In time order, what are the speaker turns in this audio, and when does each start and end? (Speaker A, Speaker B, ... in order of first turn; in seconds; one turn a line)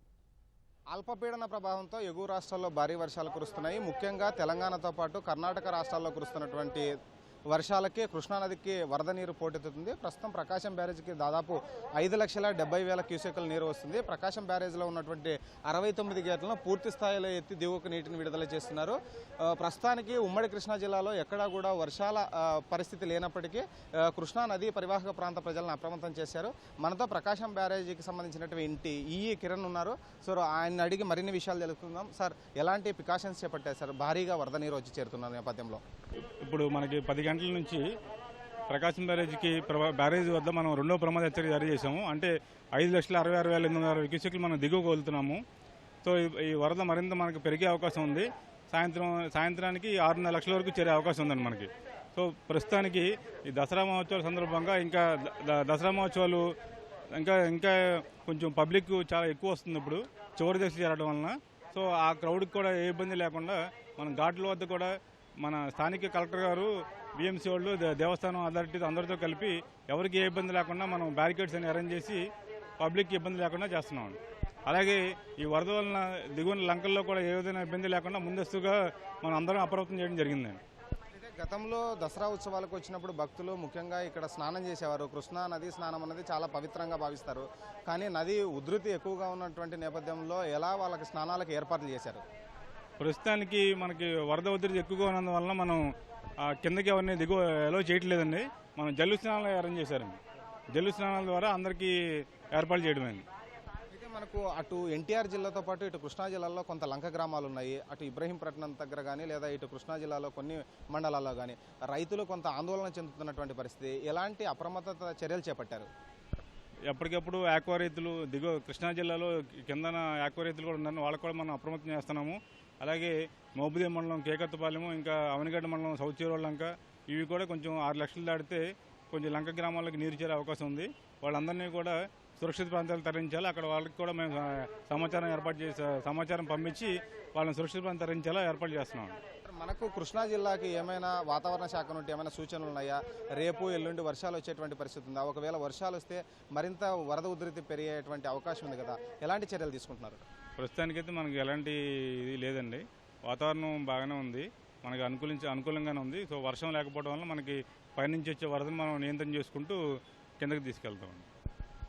Speaker A: 0.9-6.9
Speaker A: 7.5-35.8
Speaker B: 36.4-37.8
Speaker B: 38.7-45.4
Speaker B: 46.0-56.4
Speaker B: 57.1-66.7
Speaker B: 67.2-72.2
Speaker B: 72.8-80.6
Speaker A: 81.1-92.2
Speaker B: 93.0-95.8
Speaker B: 96.5-100.2
Speaker B: 100.7-101.9
Speaker B: 102.5-103.2
Speaker A: 103.9-115.9
Speaker B: 116.9-139.2
Speaker A: 139.5-150.2
Speaker B: 150.6-159.8
Speaker B: 160.4-161.3